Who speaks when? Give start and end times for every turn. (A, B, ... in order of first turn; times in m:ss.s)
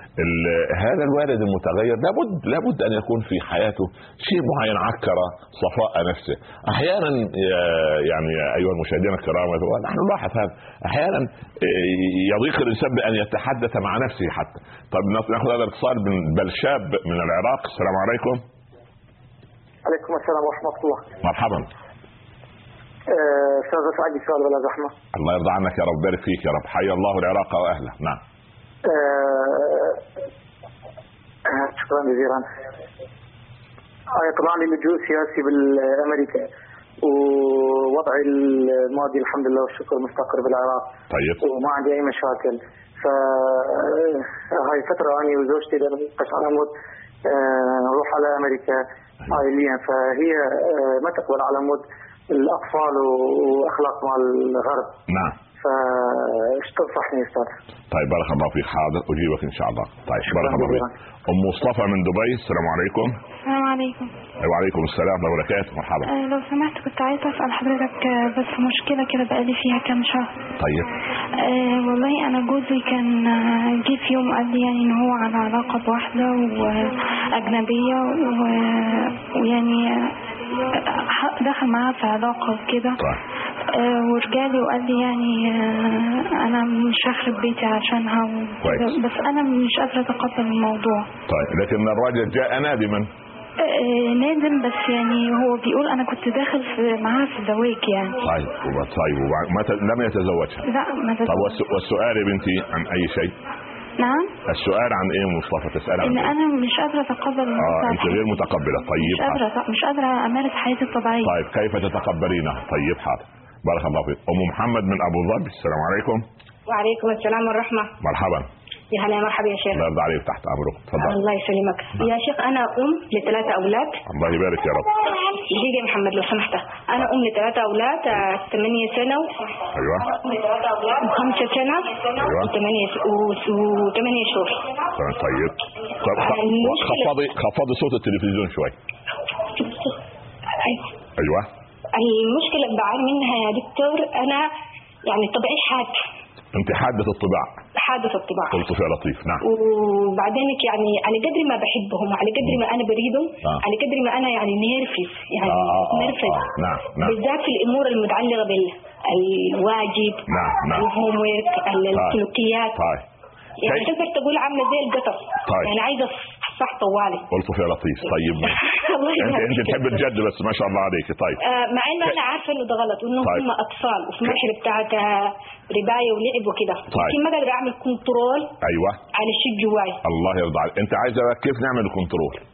0:00.2-0:18.4 A
0:19.8-0:21.0 B
0:21.2-0:21.7 A
0:23.1-0:24.9 B
0:25.1-0:28.2 A
0:28.8-0:30.0 B
0:31.5-0:32.4 B
0:34.1-0:36.5 B
0:37.0-0:40.9 B
0:41.1-0:41.4 A
0:41.4-0:46.7 B
0:47.2-0:54.9 B
0:55.1-0:55.3 A
0:55.6-0:57.5 B
0:57.9-1:03.2 A
1:00.3-1:00.9 B
1:03.4-1:04.1 C
1:04.4-1:06.1 A
1:06.0-1:10.3 C
1:10.6-1:10.9 A
1:11.4-1:20.1 C
1:20.7-1:23.0 C
1:23.7-1:31.1 C
1:28.6-1:28.9 A
1:31.3-1:33.1 A
1:33.6-1:38.2 C
1:38.2-1:40.6 A
1:40.6-1:41.6 C
1:41.2-1:43.3 A
1:44.0-1:44.3 C
1:44.5-1:46.3 A
1:46.0-1:51.3 C
1:47.6-1:49.4 A
1:51.2-1:56.2 A
1:56.7-1:57.9 D
1:58.0-1:58.5 A
1:58.9-1:59.9 D
1:59.7-2:01.2 A
2:01.0-2:04.0 D
2:04.0-2:04.9 A
2:05.3-2:09.4 D
2:09.7-2:10.1 A
2:10.0-2:14.6 D
2:12.2-2:12.5 A
2:15.0-2:18.7 A
2:16.0-2:17.2 D
2:19.6-2:19.9 D
2:20.6-2:20.9 D
2:21.2-2:21.5 A
2:21.9-2:24.5 D
2:25.0-2:26.0 D
2:26.5-2:27.5 A
2:27.8-2:28.6 D
2:28.5-2:29.4 A
2:29.4-2:42.8 D
2:35.4-2:37.2 A
2:40.3-2:40.9 A
2:41.9-2:42.2 A
2:42.7-2:43.0 A
2:43.6-2:47.3 D
2:45.4-2:45.7 A
2:47.3-2:48.6 A
2:48.4-2:50.0 D
2:49.2-2:51.4 A
2:51.4-2:58.5 D
2:58.6-2:59.0 A
2:59.1-3:00.0 D
3:00.0-3:02.4 A